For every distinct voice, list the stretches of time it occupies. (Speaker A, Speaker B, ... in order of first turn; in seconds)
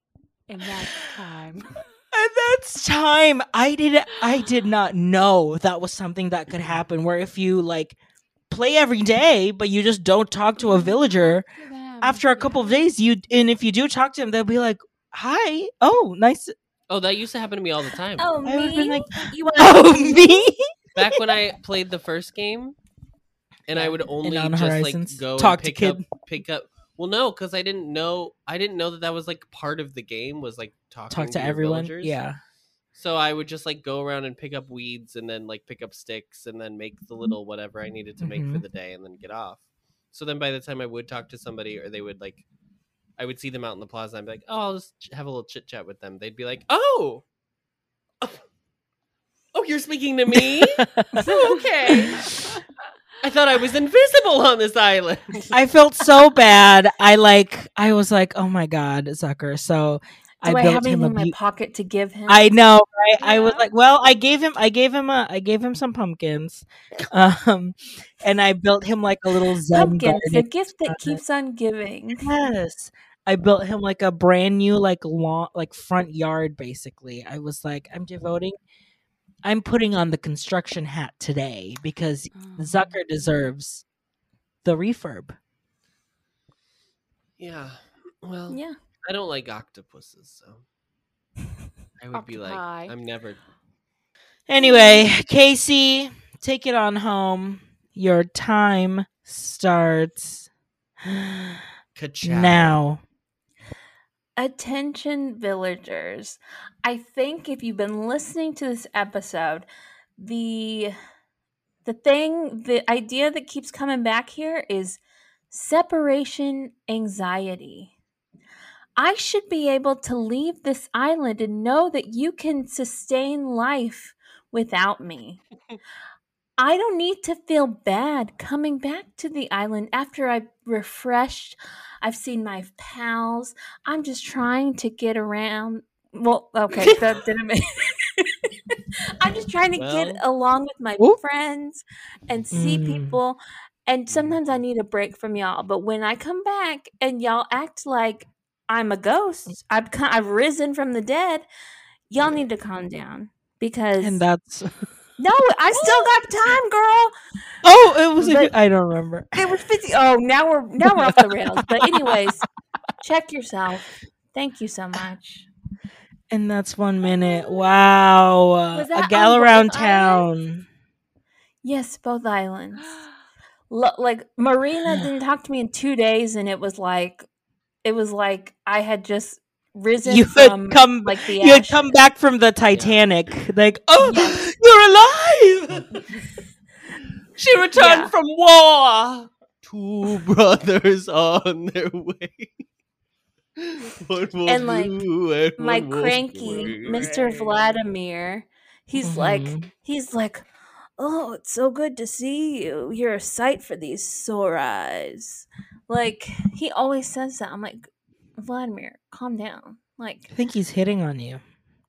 Speaker A: 0.5-1.8, 10.6-12.9, 51.2-52.3, 63.2-63.7, 82.3-83.4, 92.1-92.9
Speaker B: 2.1-8.0, 8.5-11.4, 12.0-16.5, 18.4-21.2, 23.8-26.1, 31.1-32.4, 38.2-38.6, 50.3-51.3, 52.0-52.5, 55.5-61.3, 62.3-71.2, 72.2-78.6, 79.4-83.8, 84.6-85.4, 94.5-100.5, 101.0-101.6, 102.2-103.0, 142.5-143.2, 154.0-154.7, 155.7-156.1, 157.6-159.5, 160.9-162.2, 166.3-170.7, 180.0-185.8, 199.0-199.7, 210.3-211.4
Speaker C: 16.9-18.3, 20.9-22.8, 23.7-32.2, 33.0-42.5, 43.2-47.2, 49.5-52.2, 53.2-55.5, 87.4-90.6, 92.0-93.4, 102.0-102.8, 139.8-140.2, 144.1-144.4, 182.7-183.1, 187.4-192.5, 193.6-197.5
Speaker D: 18.2-20.5, 60.4-62.5, 69.7-72.3, 88.5-88.8, 94.6-95.1, 104.4-109.7, 110.2-110.9, 111.8-115.0, 115.5-117.9, 119.0-125.4, 126.6-151.4, 152.1-154.2, 155.2-157.1, 158.2-158.5, 159.3-162.4, 163.0-165.5, 168.7-170.2, 171.6-173.0, 173.7-177.3, 177.8-181.9, 184.0-184.4, 187.7-188.1, 194.4-194.9, 195.6-200.5, 201.0-207.9, 208.4-210.3